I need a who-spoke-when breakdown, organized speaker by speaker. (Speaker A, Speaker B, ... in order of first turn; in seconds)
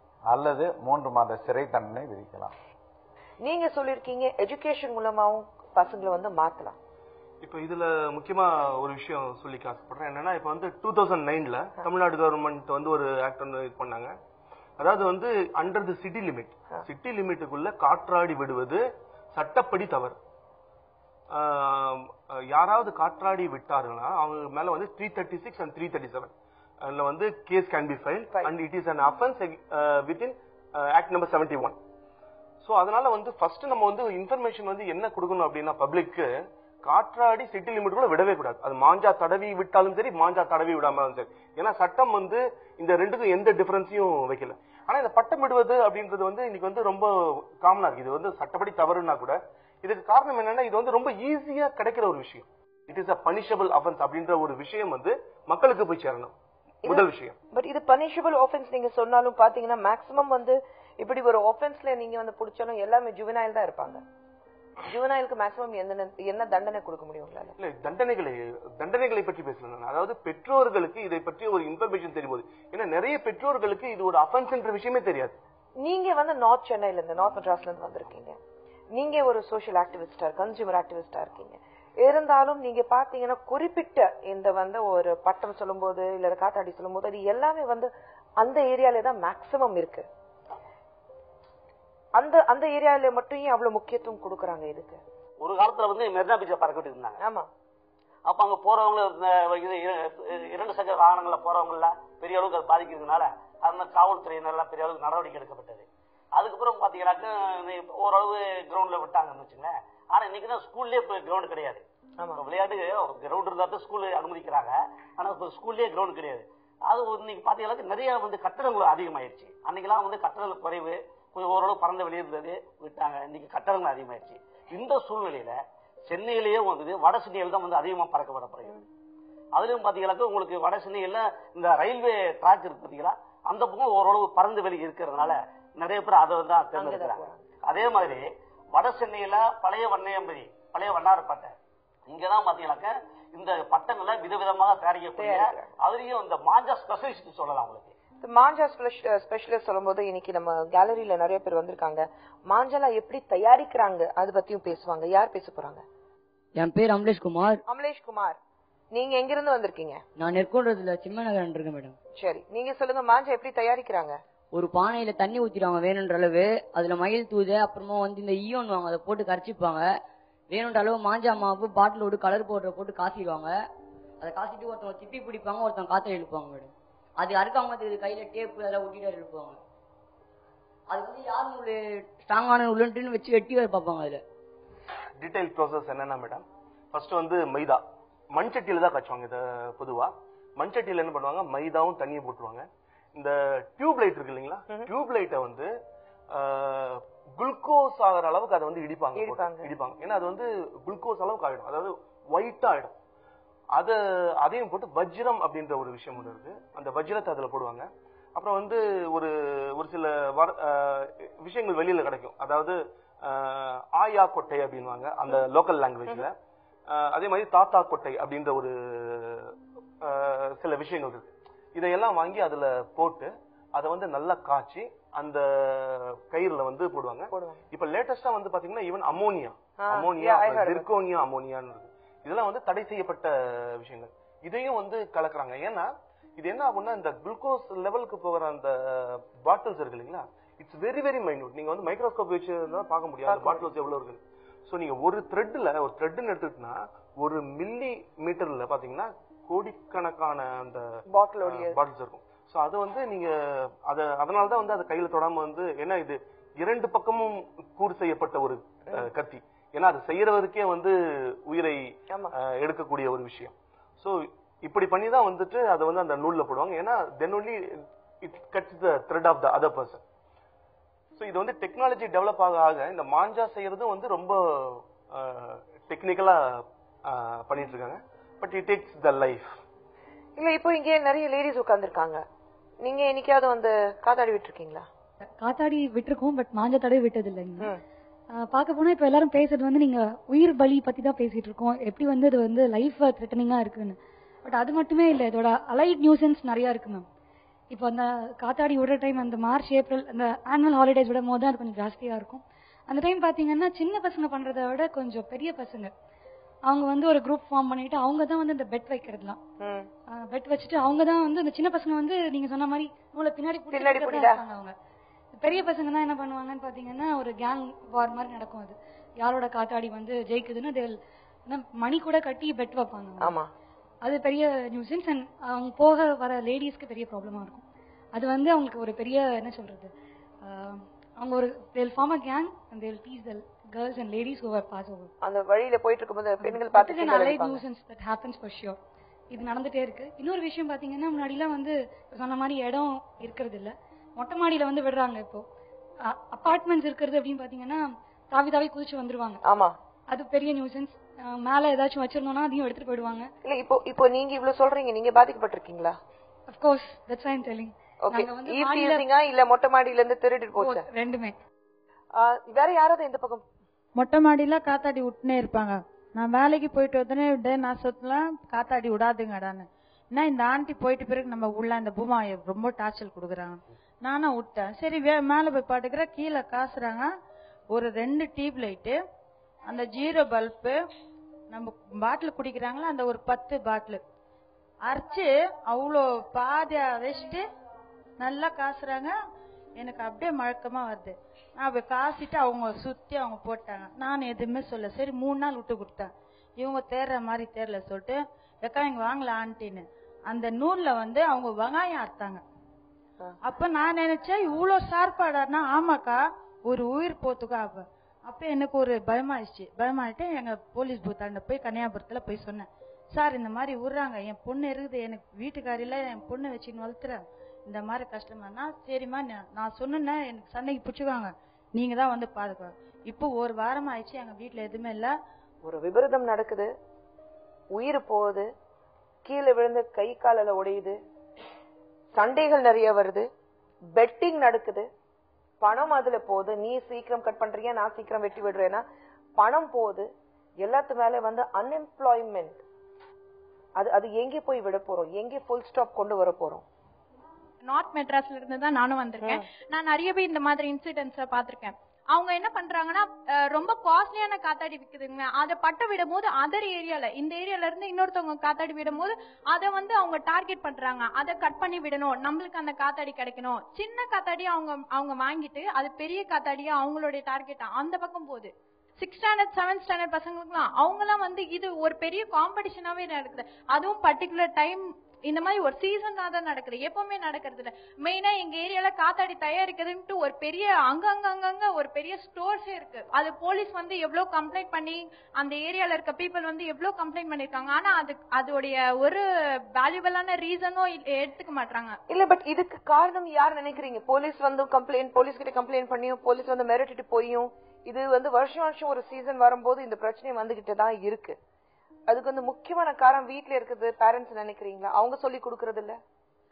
Speaker A: 0.3-2.5
Speaker B: 3.4-6.8, 56.8-64.0, 64.9-67.5, 75.8-78.4, 79.0-90.1, 92.2-95.0, 97.2-97.5, 136.7-137.5, 145.1-145.7, 148.2-155.8, 157.7-158.4, 158.9-160.0, 162.2-164.2, 199.2-199.7, 227.3-227.6, 229.8-230.9, 243.3-243.7, 251.1-251.8, 280.4-282.2, 282.8-284.9, 309.6-309.9, 313.7-314.4, 323.2-323.5, 335.2-337.6, 349.4-349.8, 353.4-356.0, 358.0-360.9, 362.2-363.4, 425.6-426.7, 427.7-428.5, 429.2-431.0, 432.1-433.3, 434.0-434.9, 435.6-438.8, 439.4-440.1, 440.6-442.6, 443.8-446.6, 492.1-501.4, 502.1-506.0
Speaker C: 7.4-14.1, 14.8-20.2, 21.3-26.3, 26.8-31.8, 32.6-36.3, 36.8-56.3, 56.9-57.4, 67.6-75.4, 185.2-187.8, 188.3-195.7, 196.3-202.9, 203.8-216.3, 216.9-250.8, 251.4-261.0, 261.5-261.8, 262.4-270.0, 271.2-279.5
Speaker D: 95.4-97.2, 98.2-111.8, 112.3-128.8, 129.6-141.5, 142.1-147.9
Speaker E: 156.6-157.6, 160.2-162.0, 164.5-169.9, 170.5-173.6, 174.2-179.6, 180.9-184.2
Speaker F: 285.2-287.8, 288.4-297.1, 297.7-305.9, 306.7-309.4, 310.1-314.8, 315.3-323.4, 324.0-329.9, 330.4-335.1, 336.4-338.8, 339.3-345.4, 346.1-349.4, 350.1-353.3, 356.5-359.1, 360.6-361.4
Speaker G: 364.0-377.1, 377.7-379.0, 379.6-380.8, 381.5-384.0, 384.9-387.5, 388.2-389.2, 389.8-402.4, 403.4-425.2
Speaker H: 447.6-489.2, 489.8-492.0